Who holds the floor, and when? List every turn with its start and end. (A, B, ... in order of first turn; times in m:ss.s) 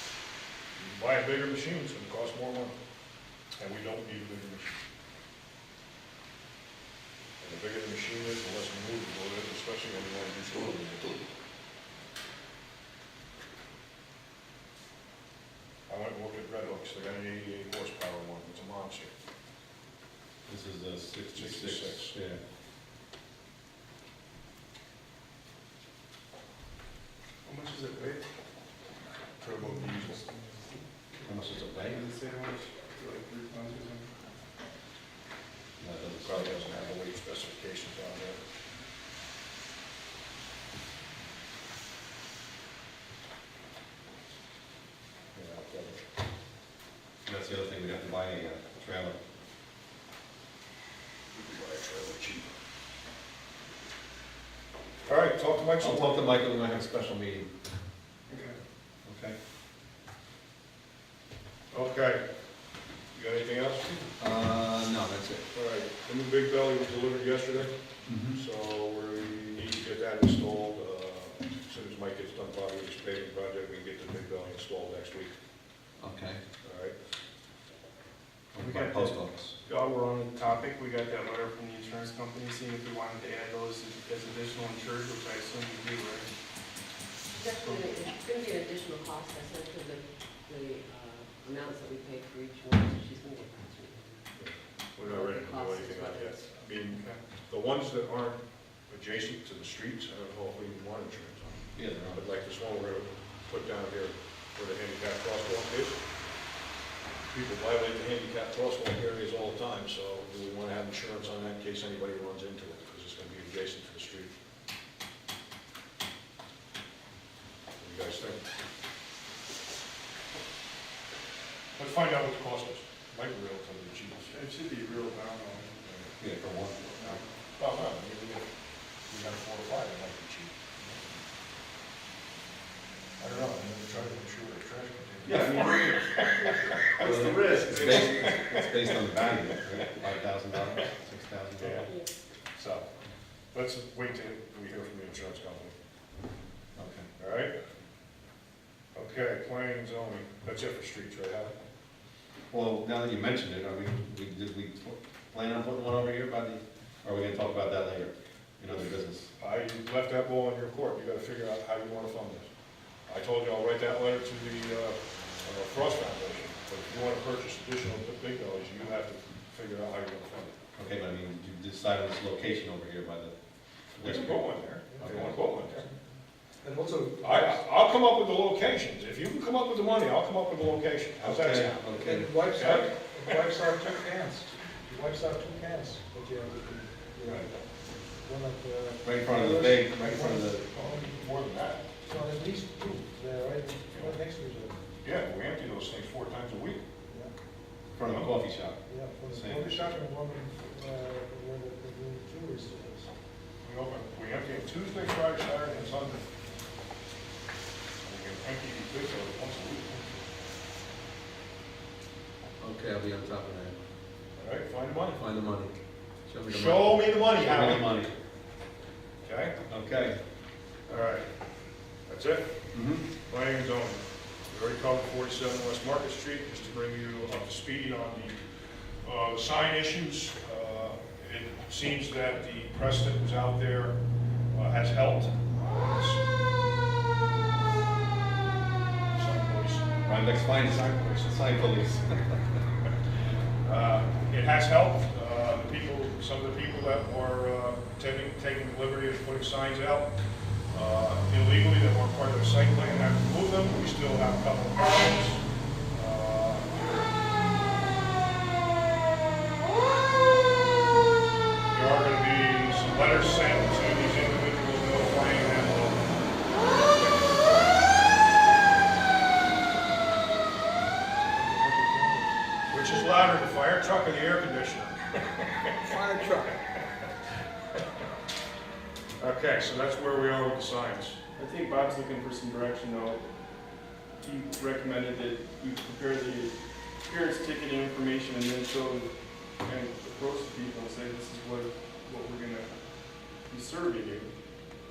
0:00.8-0:02.8 A
0:03.6-0:04.7 A
0:07.4-0:11.2 A
0:15.9-0:19.1 A
0:20.4-0:22.4 B
0:21.3-0:22.2 A
0:27.4-0:28.2 C
0:29.4-0:30.2 A
0:29.6-0:30.8 C
0:31.2-0:32.1 B
0:31.5-0:34.1 C
0:35.8-0:36.8 B
0:36.2-0:38.4 A
0:45.3-0:46.0 A
0:47.2-0:49.2 B
0:51.3-0:52.6 A
0:55.0-0:56.4 A
0:55.8-0:57.5 B
0:58.3-0:58.6 C
0:59.0-0:59.4 B
1:01.7-1:02.3 A
1:03.1-1:04.1 A
1:04.2-1:05.4 B
1:05.5-1:15.3 A
1:08.1-1:08.4 B
1:16.0-1:16.4 B
1:16.6-1:16.9 A
1:18.5-1:19.5 B
1:18.6-1:26.3 C
1:27.3-1:34.3 D
1:27.4-1:27.9 C
1:34.3-1:46.0 A
1:35.0-1:36.6 D
1:36.9-1:37.2 C
1:41.7-1:42.2 B
1:47.3-1:54.3 A
1:57.8-1:58.4 A
2:01.8-2:04.3 A
2:04.3-2:05.8 C
2:05.8-2:06.1 A
2:06.2-2:07.1 B
2:07.0-2:07.2 C
2:07.0-2:08.4 A
2:09.0-2:11.0 A
2:13.2-2:16.9 A
2:15.2-2:16.2 C
2:17.0-2:18.2 C
2:17.0-2:21.9 B
2:21.6-2:21.9 A
2:22.5-2:22.9 A
2:23.5-2:25.7 A
2:26.7-2:27.1 B
2:27.2-2:27.5 A
2:28.9-2:31.5 A
2:32.5-2:39.3 B
2:39.4-2:42.5 A
2:43.1-2:50.5 A
2:50.7-2:53.4 B
2:53.9-2:55.5 B
2:53.9-2:55.9 A
2:54.9-2:56.0 E
2:56.6-2:57.6 E
2:57.2-3:01.8 A
3:01.2-3:02.4 B
3:02.0-3:07.6 E
3:02.6-3:03.0 A
3:08.1-3:11.4 E
3:09.0-3:10.7 B
3:10.8-3:11.8 A
3:12.0-3:14.8 E
3:15.0-3:16.8 A
3:17.9-3:20.0 B
3:18.0-3:18.3 A
3:18.9-3:23.1 E
3:23.6-3:26.3 A
3:28.0-3:30.1 A
3:32.6-3:33.8 B
3:34.4-3:35.2 A
3:35.1-3:38.1 B
3:36.5-3:37.9 A
3:39.2-3:39.6 A
3:39.7-3:40.2 B
3:40.9-3:41.3 A
3:42.0-3:48.4 A
3:42.7-3:43.0 B
3:49.0-3:54.0 A
3:54.5-3:56.2 A
3:59.1-3:59.9 A
4:00.0-4:02.4 B
4:00.8-4:01.3 A
4:03.6-4:10.1 A
4:10.7-4:17.2 A
4:21.7-4:27.8 A
4:31.3-4:32.3 E
4:32.7-4:35.1 A
4:35.8-4:36.6 E
4:39.2-4:41.2 A
4:41.4-4:54.6 C